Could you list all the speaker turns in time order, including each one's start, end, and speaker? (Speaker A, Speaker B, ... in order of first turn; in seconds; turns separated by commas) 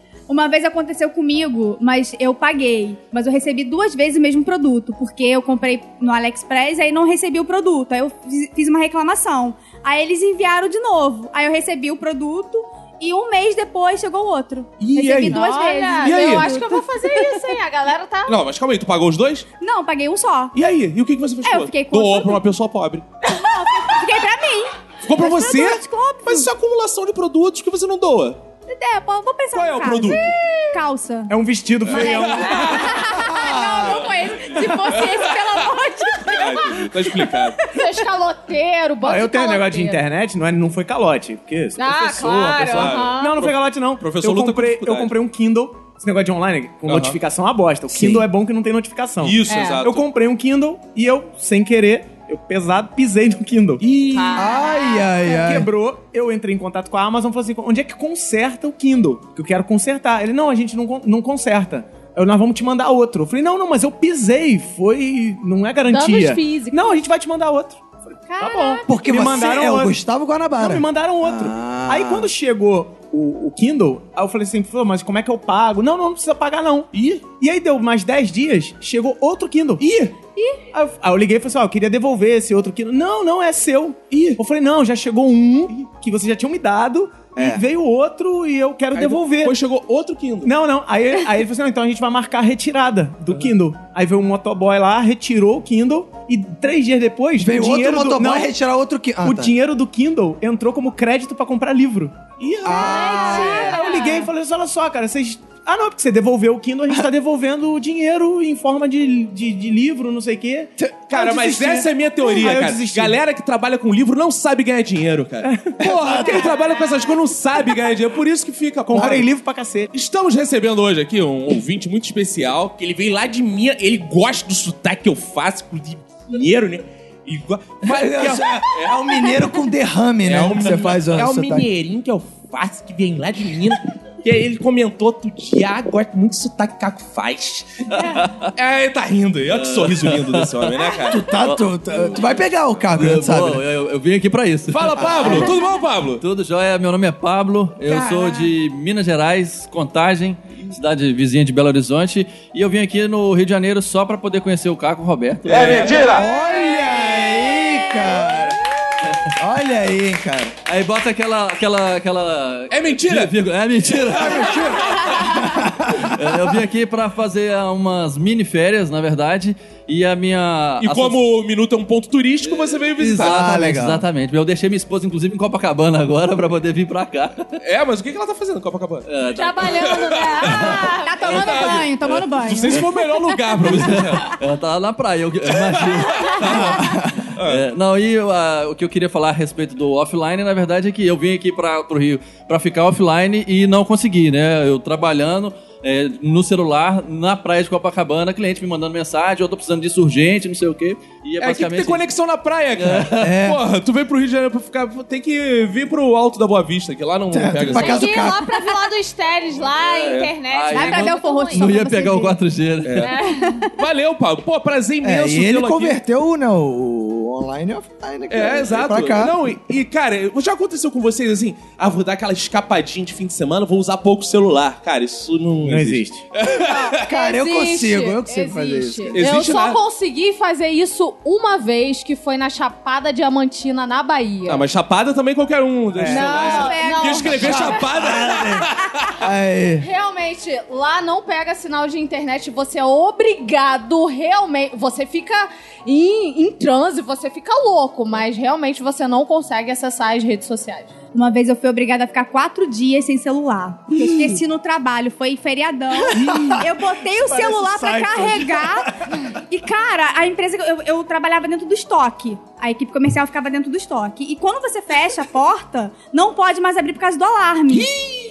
Speaker A: 0.3-17.4, Speaker B: 14.8-15.4, Speaker C: 14.8-15.2, Speaker D: 15.3-18.4, Speaker B: 16.0-16.5, Speaker B: 18.2-19.4, Speaker A: 19.6-20.5, Speaker B: 20.5-23.1, Speaker A: 21.4-22.4, Speaker A: 23.2-26.5, Speaker B: 25.0-28.4, Speaker A: 28.7-31.3, Speaker B: 29.5-30.3, Speaker C: 31.3-32.7, Speaker B: 31.9-33.2, Speaker A: 31.9-37.8, Speaker D: 32.1-34.0, Speaker E: 33.2-34.0, Speaker B: 34.5-35.7, Speaker B: 36.2-37.7, Speaker D: 37.7-40.0, Speaker C: 39.0-54.4, Speaker D: 41.8-43.4, Speaker B: 42.3-45.1, Speaker B: 46.9-47.2, Speaker E: 47.9-48.2, Speaker B: 49.2-50.0, Speaker D: 49.5-49.8, Speaker D: 54.1-55.1, Speaker E: 54.3-55.7, Speaker C: 55.3-70.0, Speaker D: 65.9-66.9, Speaker D: 68.4-68.8, Speaker E: 68.8-72.3, Speaker C: 70.6-79.8, Speaker B: 76.9-77.2, Speaker B: 79.8-80.1, Speaker C: 80.7-89.5, Speaker B: 84.1-84.4, Speaker E: 87.3-87.6, Speaker B: 88.9-90.5, Speaker C: 90.4-98.5, Speaker E: 97.4-99.5, Speaker C: 99.2-113.2, Speaker B: 102.4-102.7, Speaker E: 102.6-103.8, Speaker D: 102.7-104.3, Speaker B: 111.1-119.3, Speaker C: 115.4-115.8, Speaker E: 115.8-116.5, Speaker D: 116.5-117.0, Speaker C: 118.9-119.9, Speaker E: 118.9-119.2, Speaker B: 119.9-129.6, Speaker E: 127.8-131.7, Speaker B: 130.2-141.2, Speaker F: 137.9-138.5, Speaker F: 139.5-145.6, Speaker E: 141.1-143.6, Speaker B: 144.7-146.2, Speaker E: 144.9-145.5, Speaker F: 146.2-156.1, Speaker A: 147.9-148.5, Speaker B: 155.5-156.2, Speaker E: 156.0-158.6, Speaker F: 159.0-159.3, Speaker E: 159.3-160.5, Speaker F: 160.7-171.2, Speaker B: 162.7-163.3, Speaker B: 164.1-165.4, Speaker E: 164.2-166.3, Speaker B: 170.8-173.4, Speaker F: 172.4-177.5, Speaker E: 173.1-174.0, Speaker B: 177.6-184.3, Speaker F: 179.1-179.8, Speaker D: 179.3-181.8, Speaker F: 180.4-180.8, Speaker A: 180.9-183.0, Speaker F: 183.6-202.1, Speaker B: 185.5-187.6, Speaker E: 186.6-187.1, Speaker B: 201.4-208.1, Speaker F: 202.8-203.3, Speaker E: 203.2-203.6, Speaker E: 207.3-208.5, Speaker D: 207.7-211.8, Speaker B: 209.8-210.3, Speaker F: 210.5-213.2, Speaker A: 210.7-212.4, Speaker B: 212.8-213.1, Speaker D: 213.0-213.7, Speaker B: 213.7-216.0, Speaker E: 215.0-219.4, Speaker B: 218.3-227.0, Speaker C: 225.6-226.2, Speaker D: 226.5-234.6, Speaker E: 227.1-229.2, Speaker B: 229.1-229.8, Speaker B: 234.4-239.2, Speaker C: 235.9-236.6, Speaker D: 236.1-238.2, Speaker A: 236.3-237.7, Speaker E: 237.4-239.9, Speaker D: 239.8-250.9, Speaker A: 251.1-267.9, Speaker E: 256.1-256.5, Speaker C: 257.2-258.6